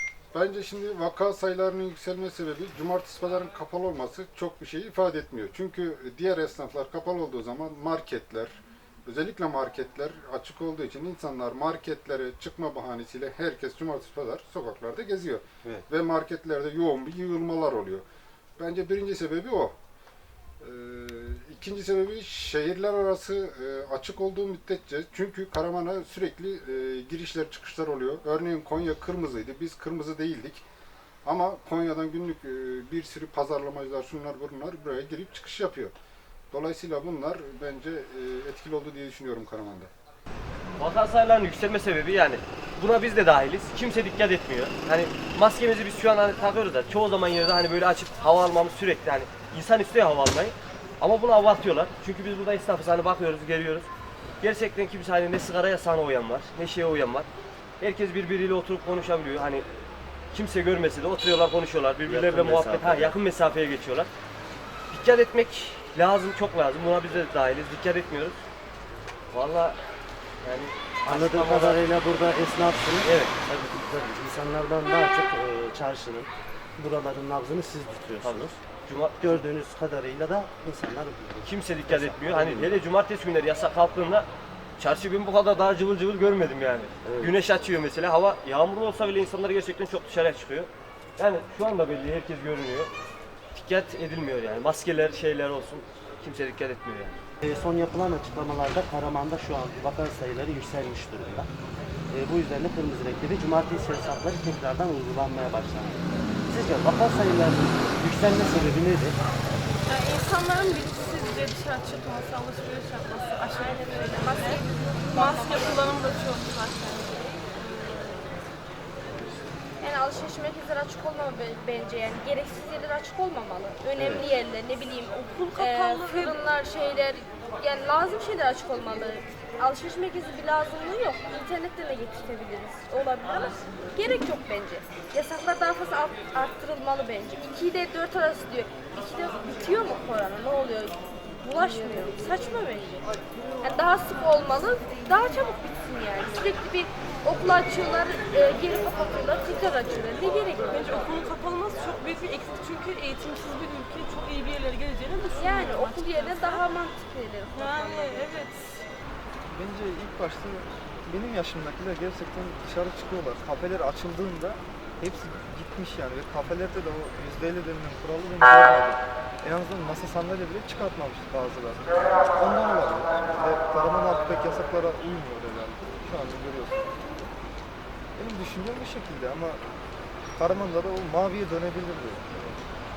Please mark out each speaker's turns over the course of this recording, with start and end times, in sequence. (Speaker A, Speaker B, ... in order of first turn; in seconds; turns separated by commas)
Speaker A: 0.3-18.0, Speaker A: 18.6-19.7, Speaker A: 20.6-30.6, Speaker A: 31.2-35.9, Speaker A: 36.5-39.9, Speaker B: 40.8-53.9, Speaker B: 54.4-57.3, Speaker B: 57.8-59.6, Speaker B: 60.3-64.1, Speaker C: 62.0-63.1, Speaker B: 64.9-68.4, Speaker B: 69.3-69.8, Speaker B: 70.4-71.8, Speaker C: 71.0-78.6, Speaker B: 73.0-73.3, Speaker B: 78.2-79.4, Speaker C: 79.2-82.8, Speaker B: 81.4-92.9, Speaker C: 87.0-87.3, Speaker B: 93.5-97.2, Speaker C: 97.4-101.5, Speaker C: 102.1-109.2, Speaker D: 109.9-118.3, Speaker E: 113.5-116.0, Speaker E: 119.8-143.1, Speaker C: 124.0-124.2, Speaker D: 125.3-126.4, Speaker E: 143.6-150.9, Speaker D: 150.6-156.6, Speaker E: 155.3-158.4, Speaker D: 157.5-158.8, Speaker F: 159.5-177.1, Speaker F: 178.2-179.6, Speaker F: 180.3-182.6